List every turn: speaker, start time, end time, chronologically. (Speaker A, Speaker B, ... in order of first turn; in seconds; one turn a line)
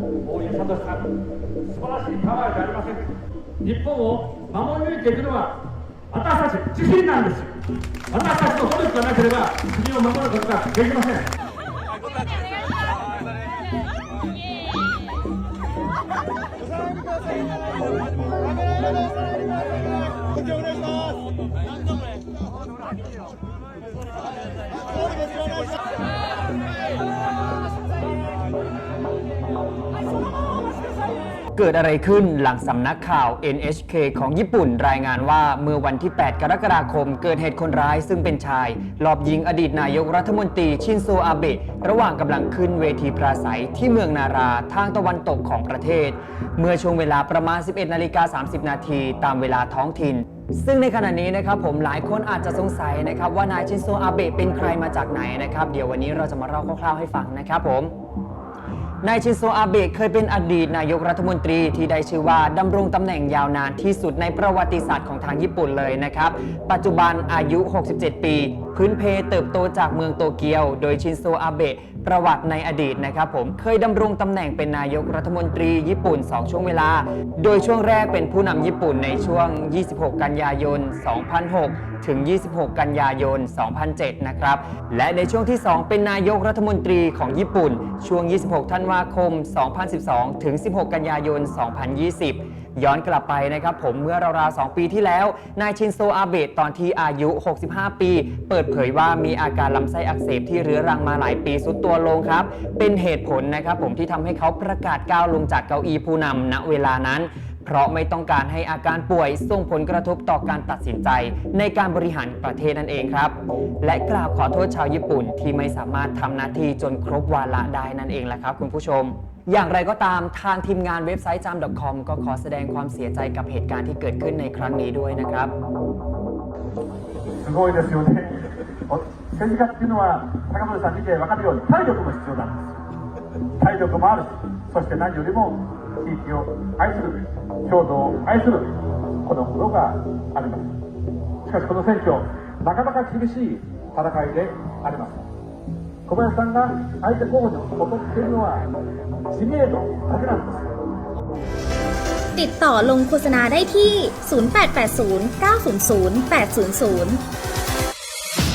Speaker A: 0.3-1.0
Speaker A: 1.8-3.0
Speaker A: 3.6-5.5
Speaker A: 6.1-7.5
Speaker B: 6.8-7.1
Speaker A: 8.1-11.2
Speaker B: 8.2-8.5
Speaker B: 9.5-10.9
Speaker C: 31.6-57.9
Speaker C: 59.0-125.5
Speaker B: 127.4-128.4
Speaker B: 128.9-132.7
Speaker B: 133.6-140.8
Speaker B: 141.5-145.2
Speaker B: 146.1-148.7
Speaker B: 149.3-150.7
Speaker D: 152.4-157.2